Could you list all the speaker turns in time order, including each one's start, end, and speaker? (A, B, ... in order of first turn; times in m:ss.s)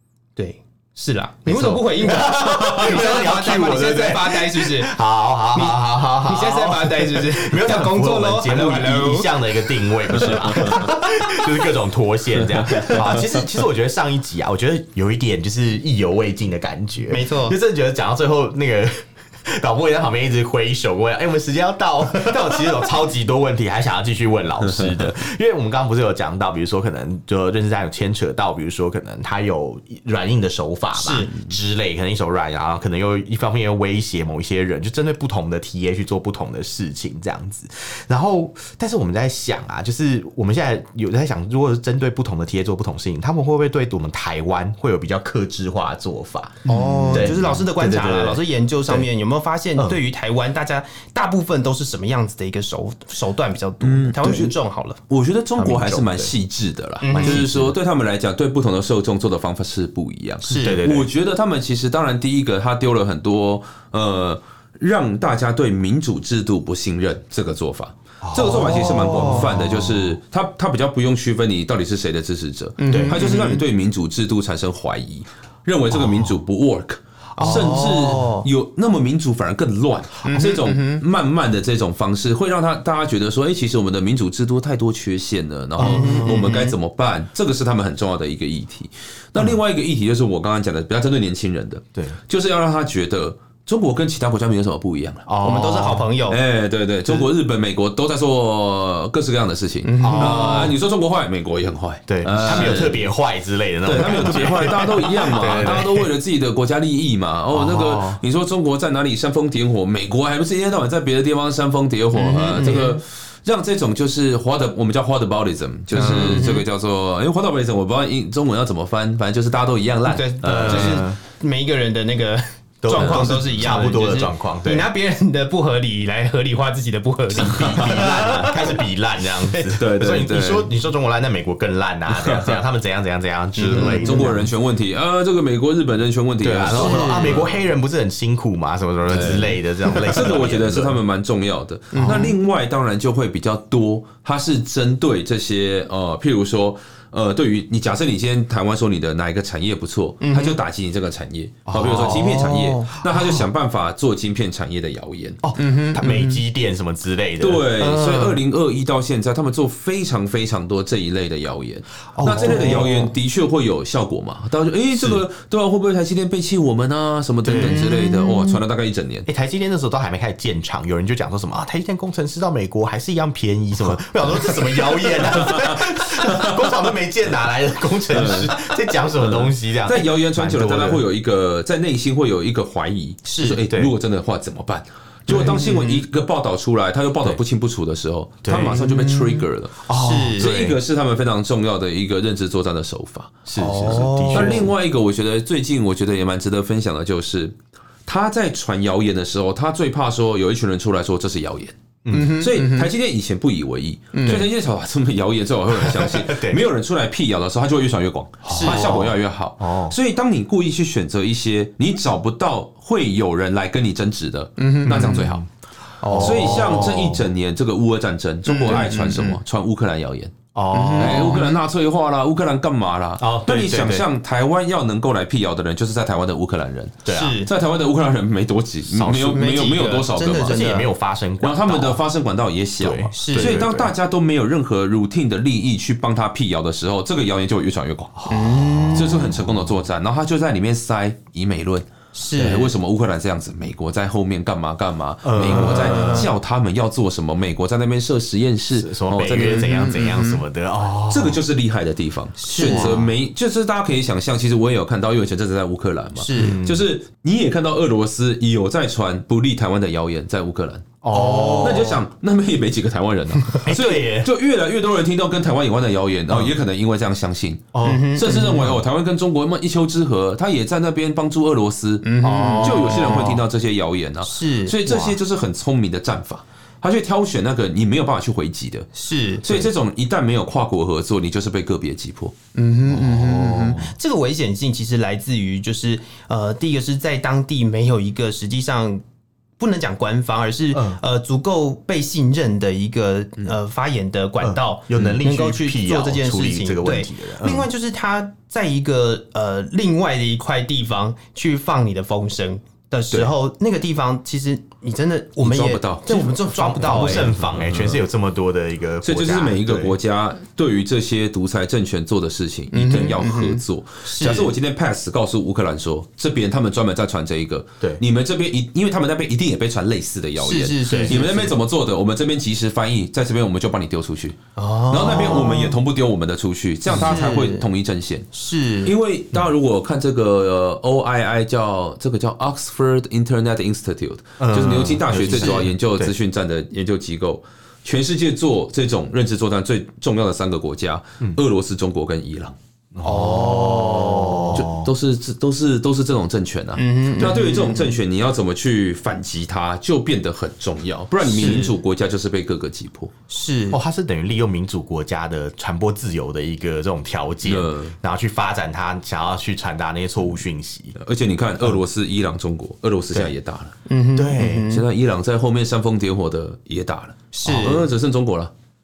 0:00.4-0:04.9 A
0:01.4-0:49.1 B
0:05.5-0:10.9 A
0:10.3-0:10.8 C
0:12.4-0:13.2 C
0:12.7-0:13.0 A
0:17.1-0:17.6 A
0:30.9-0:31.3 A
0:46.6-0:55.0 A
0:53.8-0:54.5 C
0:55.1-1:35.2 C
0:55.6-0:56.3 B
0:57.0-0:57.5 A
0:57.0-0:57.8 B
1:00.4-1:00.8 A
1:00.4-1:01.1 B
1:08.2-1:10.0 B
1:09.0-1:09.4 A
1:12.8-1:13.6 A
1:12.9-1:13.2 B
1:15.9-1:16.3 B
1:17.4-1:18.2 B
1:17.4-1:18.4 A
1:20.2-1:21.0 A
1:25.8-1:26.5 B
1:25.8-1:26.7 A
1:35.2-1:36.1 B
1:35.4-1:36.4 A
1:36.3-1:43.1 C
1:39.8-1:40.7 A
1:40.0-1:40.8 B
1:42.1-1:46.1 B
1:43.8-2:01.1 C
1:47.5-1:48.2 B
1:52.1-1:53.0 A
1:52.6-1:52.9 B
1:55.9-1:56.4 B
1:56.0-1:56.6 A
2:00.1-2:08.8 A
2:00.4-2:01.2 B
2:02.8-2:04.9 B
2:02.9-2:03.9 C
2:07.3-2:14.5 B
2:07.4-2:08.7 C
2:09.7-2:10.7 C
2:12.1-2:12.5 C
2:13.6-2:14.4 A
2:13.7-2:17.5 C
2:16.4-2:21.0 B
2:16.7-2:17.4 A
2:19.1-2:35.4 C
2:21.9-2:22.3 A
2:22.0-2:22.3 B
2:30.2-2:30.6 A
2:31.7-2:33.5 B
2:32.0-2:32.9 A
2:35.4-2:38.4 B
2:35.6-2:36.4 A
2:37.4-2:49.3 C
2:42.1-2:43.1 B
2:42.5-2:42.9 A
2:44.9-2:45.2 B
2:47.4-2:48.3 B
2:47.5-2:48.4 A
2:49.3-3:01.0 B
2:55.5-2:55.7 C
2:58.1-3:09.8 C
3:03.3-3:03.6 A
3:05.3-3:05.6 B
3:05.4-3:05.9 A
3:08.4-3:09.2 B
3:09.8-3:10.8 B
3:09.9-3:10.6 A
3:10.3-3:13.4 C
3:13.4-3:14.7 B
3:13.6-3:14.7 A
3:13.9-3:17.5 C
3:18.1-3:35.4 C
3:22.0-3:22.4 B
3:22.1-3:22.9 A
3:24.1-3:24.4 A
3:25.7-3:26.6 B
3:28.4-3:30.0 B
3:28.5-3:28.9 A
3:34.6-3:35.3 A
3:34.9-3:35.4 B
3:36.0-3:36.8 A
3:36.1-3:37.2 B
3:36.1-3:40.4 C
3:38.5-3:39.4 A
3:38.6-3:38.9 B
3:40.5-3:41.5 B
3:40.7-3:41.5 A
3:41.0-3:50.6 C
3:43.2-3:44.0 B
3:47.0-3:47.4 B
3:47.1-3:47.5 A
3:48.9-3:49.4 B
3:49.1-3:50.9 A
3:50.4-3:52.0 B
3:51.4-3:58.1 C
3:52.8-3:53.9 B
3:53.1-3:53.6 A
3:58.2-3:59.5 B
3:58.3-3:59.2 A
3:58.9-4:10.0 C
4:02.1-4:02.7 A
4:05.2-4:06.3 B
4:05.4-4:06.3 A
4:08.8-4:11.4 B
4:09.4-4:10.4 A
4:11.1-4:20.9 C
4:12.4-4:13.0 A
4:12.5-4:13.1 B
4:16.2-4:16.6 A
4:16.3-4:16.8 B
4:21.0-4:22.0 B
4:21.1-4:22.0 A
4:21.6-4:38.9 C
4:23.6-4:24.3 B
4:26.3-4:26.6 B
4:27.7-4:28.8 B
4:27.8-4:28.6 A
4:32.0-4:33.4 A
4:32.2-4:33.4 B
4:34.2-4:34.8 A
4:34.8-4:35.2 B
4:38.9-4:39.7 A
4:39.4-4:42.3 C
4:42.5-4:49.0 A
4:42.9-4:43.9 B
4:49.6-5:07.4 A
4:50.7-4:51.0 B
4:54.4-4:57.7 B
5:05.4-5:06.3 C
5:06.4-5:09.9 B
5:07.0-5:08.0 C
5:09.0-5:28.3 C
5:12.7-5:14.5 A
5:20.4-5:21.5 A
5:20.8-5:21.1 B
5:24.6-5:25.8 A
5:26.9-5:27.7 A
5:28.3-5:28.9 A
5:28.8-5:42.6 C
5:34.4-5:36.1 B
5:35.3-5:35.6 A
5:42.9-5:44.9 B
5:43.0-5:44.6 A
5:44.5-5:53.1 C
5:46.8-5:47.6 A
5:47.2-5:47.5 B
5:51.2-5:51.7 A
5:53.3-5:53.8 A
5:53.7-6:01.0 B
5:57.4-5:58.0 C
6:01.0-6:03.7 C
6:03.9-6:04.8 A
6:04.1-6:04.7 B
6:04.7-6:08.5 C
6:07.3-6:07.9 A